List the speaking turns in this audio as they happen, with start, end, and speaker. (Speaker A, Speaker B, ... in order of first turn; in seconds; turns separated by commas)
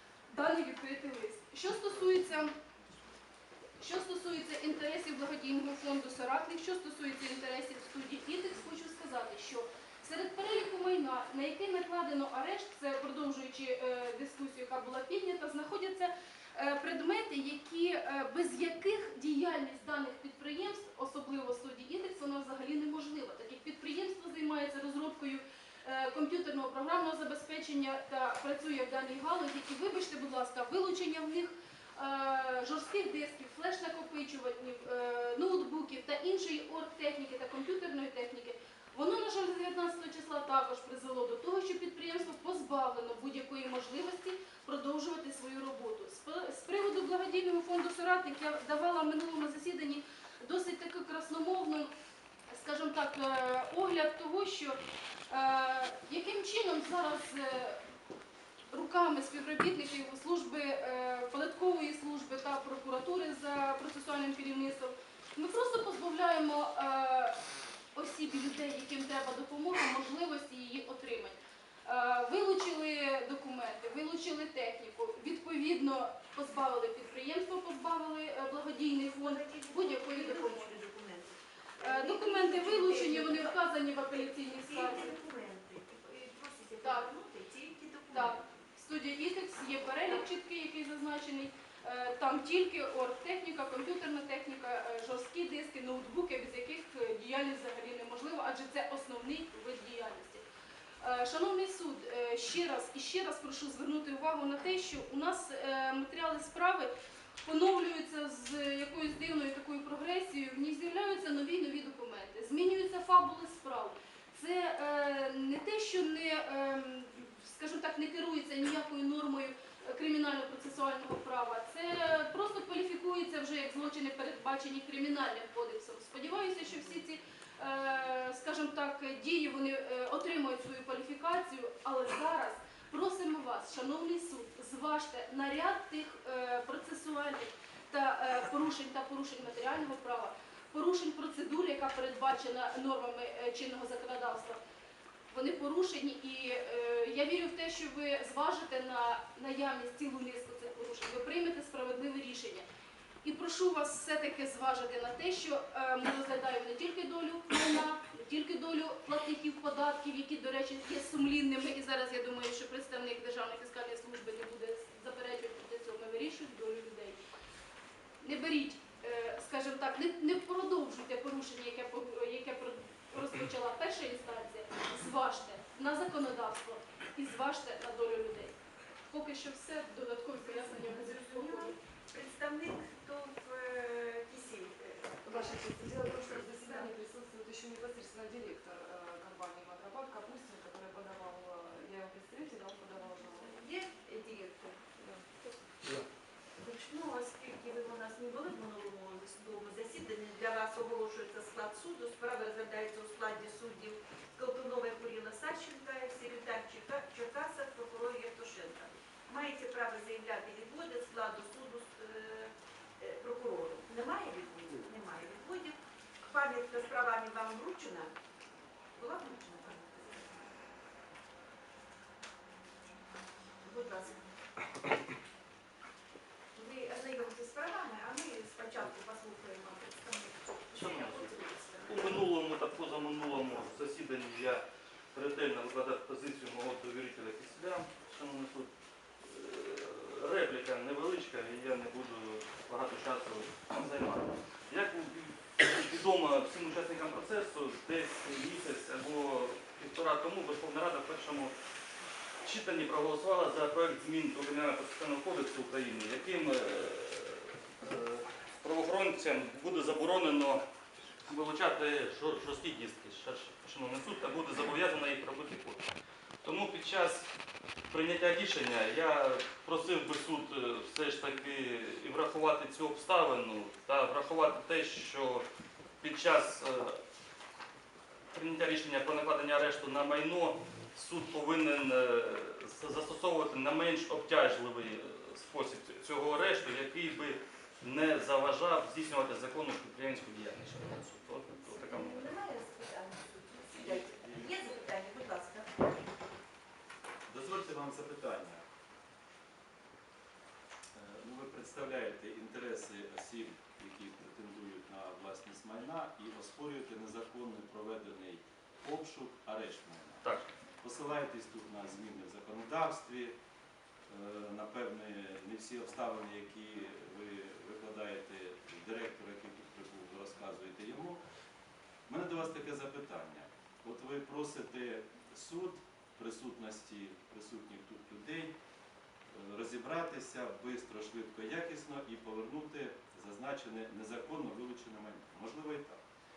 Speaker A: 0.3-2.5, Speaker A: 3.8-51.9, Speaker A: 52.5-54.8, Speaker A: 55.3-57.8, Speaker A: 58.7-67.4, Speaker A: 67.9-80.8, Speaker B: 79.2-83.6, Speaker A: 81.8-85.1, Speaker B: 84.5-88.5, Speaker A: 88.1-100.4, Speaker A: 101.0-106.9, Speaker A: 107.4-144.6, Speaker A: 145.3-152.7, Speaker A: 153.2-167.2, Speaker A: 168.2-178.6, Speaker A: 179.1-181.7, Speaker B: 180.4-185.7, Speaker C: 185.2-193.6, Speaker B: 186.5-186.9, Speaker B: 193.3-194.8, Speaker C: 194.2-195.2, Speaker B: 196.6-218.1, Speaker B: 218.9-220.5, Speaker B: 223.6-224.3, Speaker B: 226.5-232.2, Speaker D: 230.7-238.7, Speaker D: 239.2-251.5, Speaker D: 252.4-260.6, Speaker D: 261.3-265.9, Speaker D: 266.4-267.3, Speaker D: 267.9-275.4, Speaker D: 276.0-277.0, Speaker D: 278.3-292.3, Speaker B: 291.6-296.0, Speaker E: 293.8-294.5, Speaker E: 297.3-298.6, Speaker E: 300.9-310.2, Speaker E: 310.8-313.3, Speaker E: 314.1-321.2, Speaker E: 322.1-328.5, Speaker E: 329.3-336.0